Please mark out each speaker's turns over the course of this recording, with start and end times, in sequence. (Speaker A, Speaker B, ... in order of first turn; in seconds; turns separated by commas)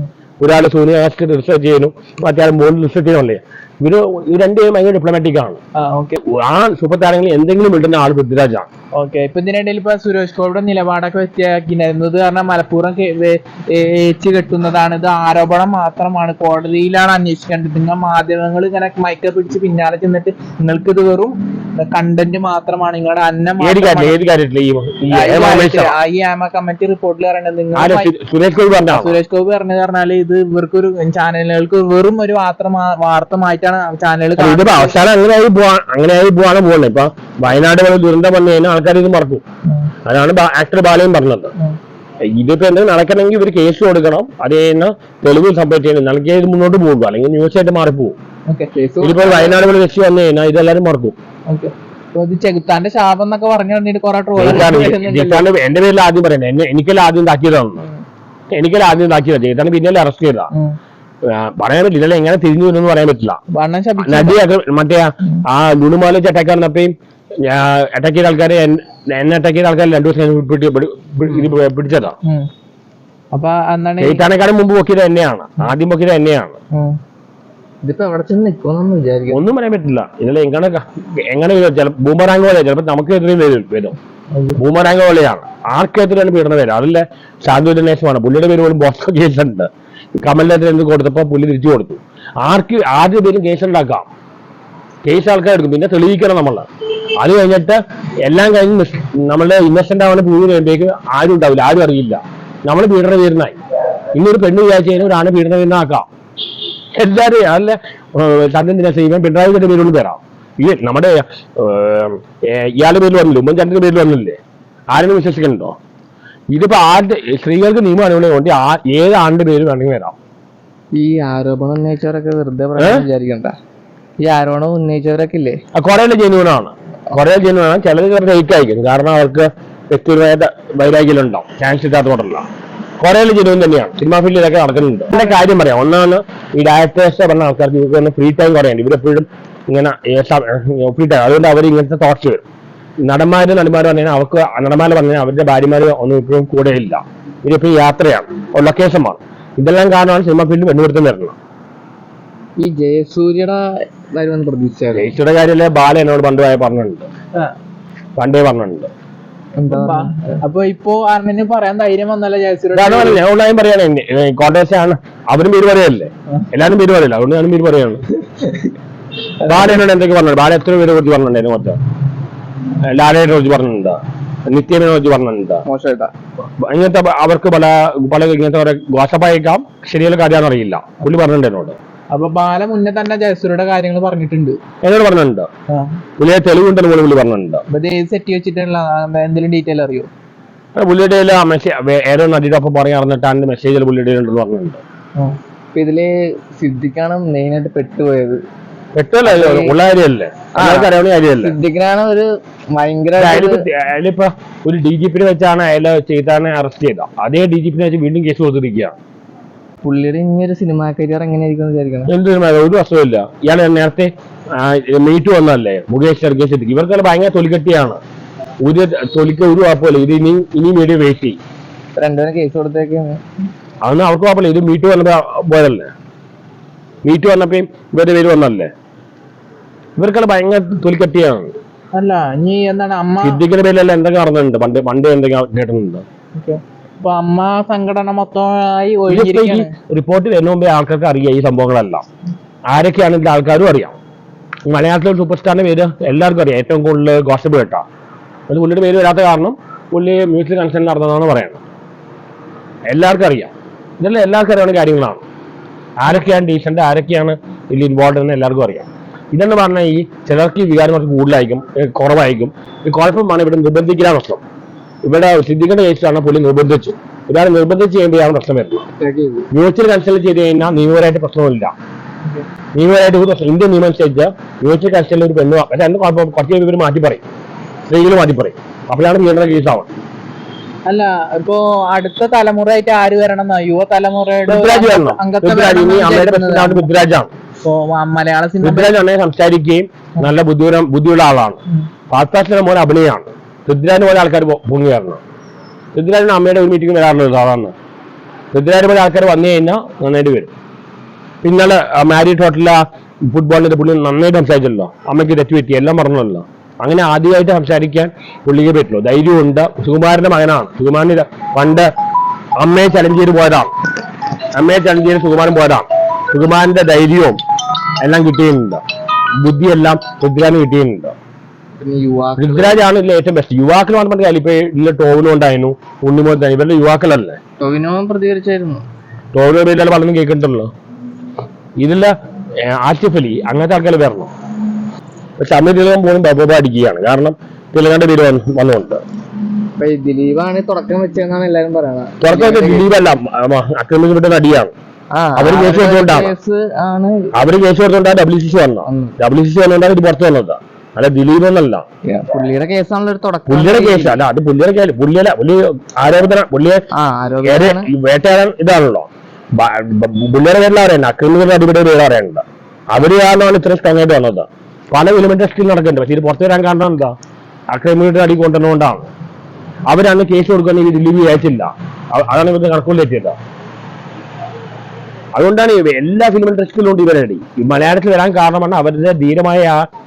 Speaker A: 0.4-5.6, Speaker B: 5.8-6.2, Speaker A: 6.2-8.7, Speaker B: 8.9-24.2, Speaker A: 23.6-25.9, Speaker B: 25.1-28.1, Speaker A: 27.7-29.2, Speaker B: 28.9-35.0, Speaker A: 34.4-39.4, Speaker A: 40.0-41.5, Speaker A: 42.3-48.1, Speaker C: 48.7-49.6, Speaker A: 49.0-51.2, Speaker B: 51.5-55.5, Speaker A: 54.4-57.9, Speaker A: 58.5-60.5, Speaker A: 61.2-63.4, Speaker B: 63.5-64.4, Speaker A: 64.0-72.2, Speaker B: 73.3-74.2, Speaker A: 74.0-76.6, Speaker B: 76.7-77.0, Speaker C: 77.8-79.4, Speaker A: 79.3-84.0, Speaker B: 84.3-84.6, Speaker A: 84.6-94.0, Speaker A: 95.0-96.7, Speaker A: 97.2-103.6, Speaker A: 104.1-106.1, Speaker A: 106.9-114.4, Speaker A: 114.9-115.8, Speaker A: 116.5-120.1, Speaker C: 121.0-123.5, Speaker A: 122.8-123.0, Speaker C: 124.2-125.6, Speaker A: 125.7-132.4, Speaker A: 133.0-142.4, Speaker A: 143.0-151.3, Speaker C: 152.6-155.1, Speaker A: 154.9-157.1, Speaker A: 158.2-158.9, Speaker C: 159.6-160.4, Speaker B: 159.7-163.2, Speaker A: 162.7-168.0, Speaker A: 169.4-171.8, Speaker A: 172.8-175.6, Speaker C: 175.6-176.1, Speaker A: 176.6-181.8, Speaker B: 182.1-184.6, Speaker A: 184.8-185.5, Speaker B: 185.7-186.0, Speaker A: 186.2-187.6, Speaker B: 187.7-190.1, Speaker A: 190.8-194.8, Speaker C: 195.7-198.4, Speaker A: 198.9-201.6, Speaker C: 199.2-199.8, Speaker C: 200.5-203.6, Speaker A: 203.2-208.9, Speaker C: 209.8-212.1, Speaker A: 212.1-218.0, Speaker A: 218.6-221.4, Speaker C: 221.9-223.2, Speaker A: 223.8-225.9, Speaker A: 227.0-228.7, Speaker A: 230.0-231.5, Speaker B: 231.9-233.4, Speaker A: 233.2-236.0, Speaker B: 236.3-239.7, Speaker A: 239.1-242.0, Speaker A: 242.7-243.9, Speaker A: 244.7-247.8, Speaker A: 248.5-251.6, Speaker A: 252.9-255.2, Speaker A: 256.0-264.4, Speaker A: 265.0-268.9, Speaker C: 269.0-269.5, Speaker A: 269.5-271.7, Speaker A: 272.7-277.2, Speaker A: 277.9-279.9, Speaker B: 280.9-286.9, Speaker A: 284.5-287.3, Speaker B: 287.6-288.9, Speaker A: 288.6-295.2, Speaker A: 295.9-297.7, Speaker A: 298.5-300.5, Speaker A: 301.4-311.9, Speaker A: 312.6-313.7, Speaker A: 314.5-317.4, Speaker A: 318.0-318.8, Speaker A: 319.4-321.1, Speaker C: 321.8-322.8, Speaker A: 322.4-327.4, Speaker C: 327.6-328.8, Speaker A: 329.3-330.7, Speaker A: 331.8-332.1, Speaker A: 332.7-334.3, Speaker A: 335.4-339.0, Speaker C: 339.8-342.9, Speaker A: 342.2-344.7, Speaker C: 345.1-347.3, Speaker A: 345.4-346.3, Speaker A: 347.3-351.8, Speaker C: 348.9-349.2, Speaker C: 352.1-354.2, Speaker A: 353.5-356.8, Speaker C: 356.9-357.9, Speaker A: 357.4-367.1, Speaker A: 367.7-369.1, Speaker A: 369.9-373.4, Speaker A: 375.3-379.8